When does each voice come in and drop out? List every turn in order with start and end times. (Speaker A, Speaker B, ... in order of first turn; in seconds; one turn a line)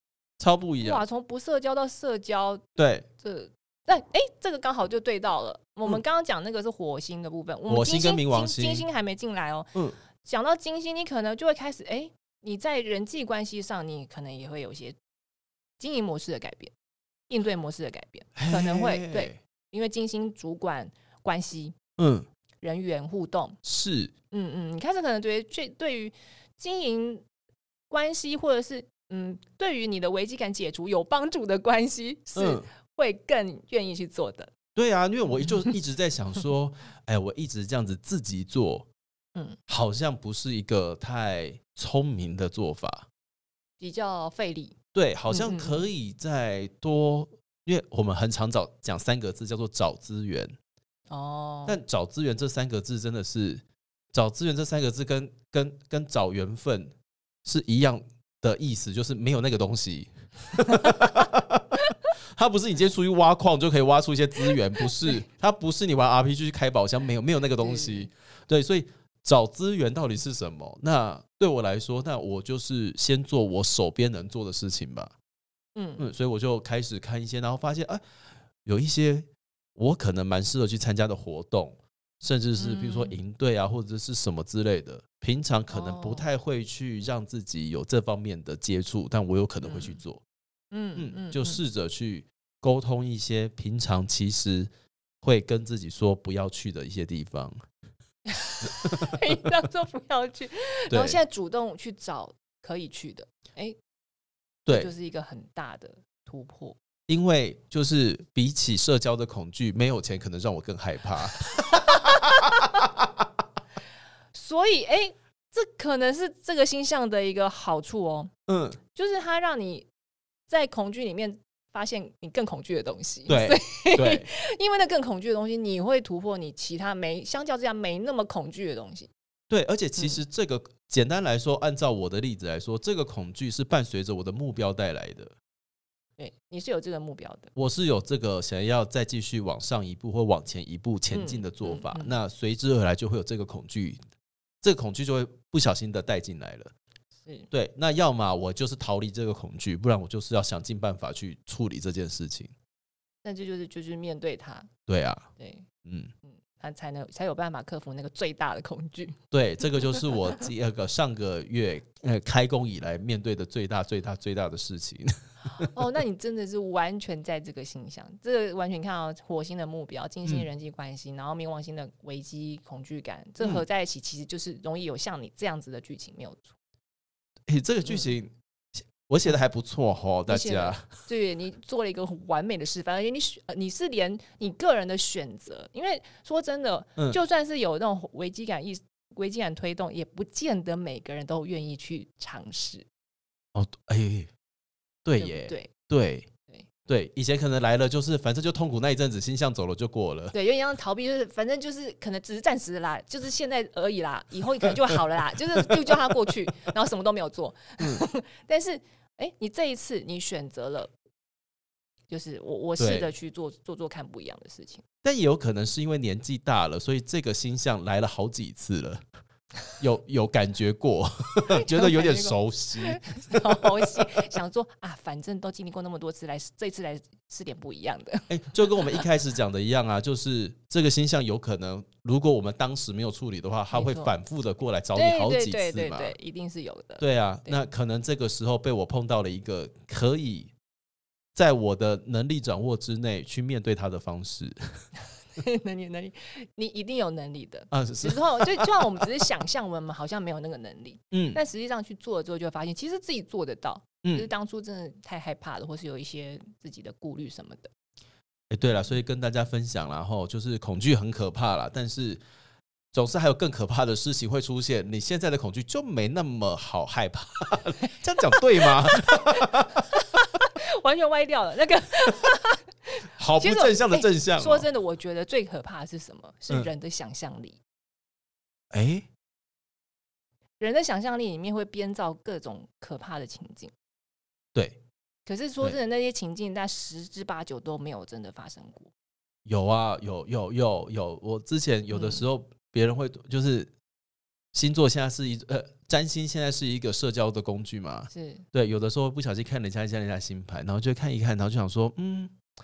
Speaker A: 0.4-1.0
Speaker B: 0.8-2.6
Speaker A: 2.8-3.1
Speaker B: 3.2-15.0
Speaker A: 7.7-8.9
Speaker B: 15.8-16.7
Speaker B: 17.3-21.8
Speaker A: 18.4-19.4
Speaker A: 22.0-22.3
Speaker B: 22.6-23.6
Speaker A: 23.6-24.1
Speaker B: 24.3-27.2
Speaker B: 27.9-34.5
Speaker A: 32.4-32.7
Speaker A: 34.8-38.9
Speaker A: 39.7-43.1
Speaker B: 43.8-44.8
Speaker A: 44.9-50.5
Speaker B: 45.3-45.9
Speaker B: 51.1-51.8
Speaker A: 51.7-56.9
Speaker A: 57.5-61.8
Speaker A: 62.3-75.1
Speaker B: 67.6-68.1
Speaker B: 75.8-76.1
Speaker A: 76.0-78.0
Speaker A: 78.7-90.2
Speaker B: 82.6-83.2
Speaker B: 85.7-86.3
Speaker B: 89.6-90.0
Speaker B: 90.7-91.6
Speaker A: 91.0-94.7
Speaker A: 95.2-97.6
Speaker B: 98.3-103.8
Speaker A: 98.8-99.3
Speaker A: 100.9-101.2
Speaker A: 104.7-104.9
Speaker B: 104.7-106.8
Speaker A: 107.1-113.1
Speaker B: 111.9-112.7
Speaker B: 114.3-118.3
Speaker A: 118.5-118.8
Speaker B: 119.0-119.9
Speaker B: 120.5-129.1
Speaker A: 123.3-124.3
Speaker A: 129.5-135.3
Speaker B: 136.2-137.5
Speaker A: 137.6-144.0
Speaker B: 141.1-142.2
Speaker A: 144.6-146.7
Speaker A: 147.5-152.5
Speaker B: 153.2-154.7
Speaker A: 154.9-155.3
Speaker B: 155.4-155.7
Speaker A: 155.8-156.1
Speaker B: 156.2-159.2
Speaker A: 159.3-165.7
Speaker B: 165.6-176.5
Speaker A: 177.5-180.9
Speaker B: 177.8-178.1
Speaker B: 180.3-192.9
Speaker A: 193.5-194.3
Speaker A: 195.1-196.3
Speaker B: 195.2-195.7
Speaker A: 196.9-200.3
Speaker B: 200.3-210.9
Speaker A: 205.8-206.4
Speaker A: 207.8-208.1
Speaker B: 212.1-214.8
Speaker A: 212.8-213.1
Speaker A: 215.0-219.0
Speaker A: 219.8-223.9
Speaker B: 221.5-229.1
Speaker A: 228.3-236.2
Speaker B: 233.7-234.1
Speaker B: 234.9-237.6
Speaker A: 237.0-240.5
Speaker A: 241.3-244.8
Speaker B: 245.4-257.7
Speaker A: 247.7-249.1
Speaker A: 251.1-251.4
Speaker A: 258.5-262.2
Speaker A: 262.9-269.8
Speaker B: 268.3-277.6
Speaker A: 273.2-274.7
Speaker A: 278.7-279.1
Speaker B: 280.6-283.7
Speaker A: 284.6-284.8
Speaker B: 285.3-288.9
Speaker A: 289.4-293.7
Speaker B: 291.9-292.2
Speaker A: 294.5-302.4
Speaker B: 298.1-298.4